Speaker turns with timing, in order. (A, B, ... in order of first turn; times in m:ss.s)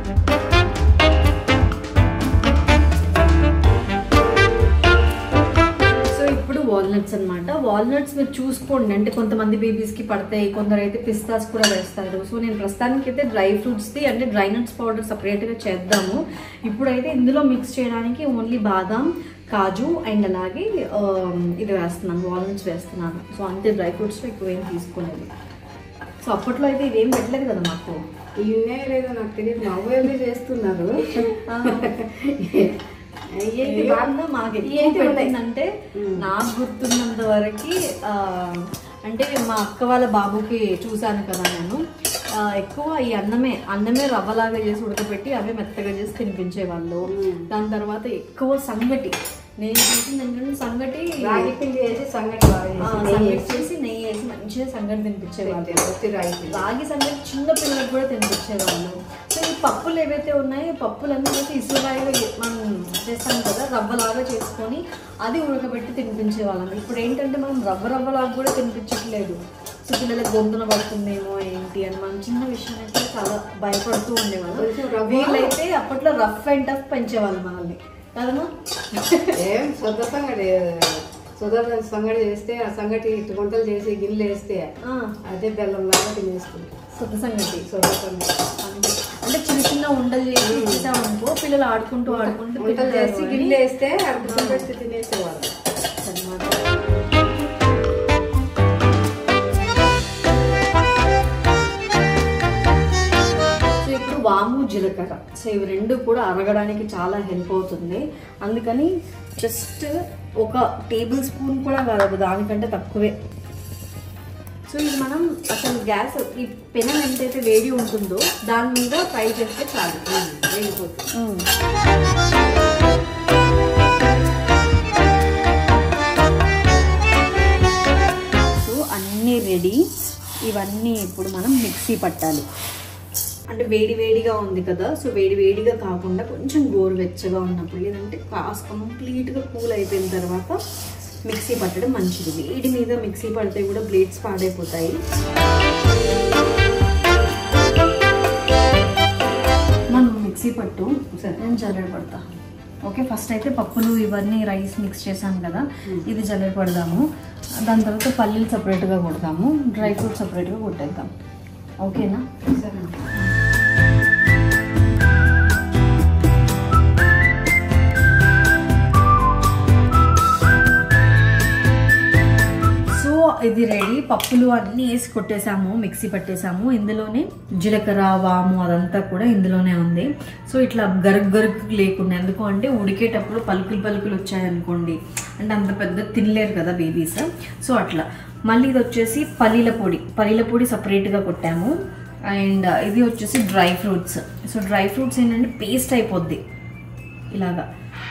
0:06.1-0:25.3 A
0:26.2-0:28.0 A
0:28.4-0:32.8 B
0:31.4-0:31.9 A
0:33.3-0:34.1 B
0:33.6-0:41.8 A
0:34.6-0:35.3 B
0:36.0-0:36.2 B
0:42.4-0:51.5 A
0:47.1-0:47.4 B
0:51.2-0:53.6 B
0:52.8-0:55.8 A
0:55.4-0:56.6 B
0:56.5-1:19.4 A
1:14.5-1:15.6 B
1:19.3-1:24.7 B
1:24.8-1:25.1 A
1:25.2-1:26.7 B
1:26.9-1:27.7 A
1:27.6-1:28.4 B
1:28.6-1:33.6 A
1:30.4-1:30.9 B
1:32.1-1:35.5 B
1:34.2-1:34.7 A
1:36.0-1:36.6 A
1:43.8-1:53.1 A
1:54.7-2:00.1 A
2:00.1-2:01.1 B
2:01.1-2:01.5 A
2:08.5-2:09.8 A
2:10.4-2:12.4 A
2:13.5-2:20.6 A
2:21.3-2:25.0 A
2:29.9-2:32.2 A
2:32.8-2:37.0 A
2:37.6-2:41.1 A
2:41.8-2:42.2 A
2:42.4-2:43.1 B
2:52.9-3:11.8 A
3:12.3-3:16.4 A
3:17.3-3:17.6 A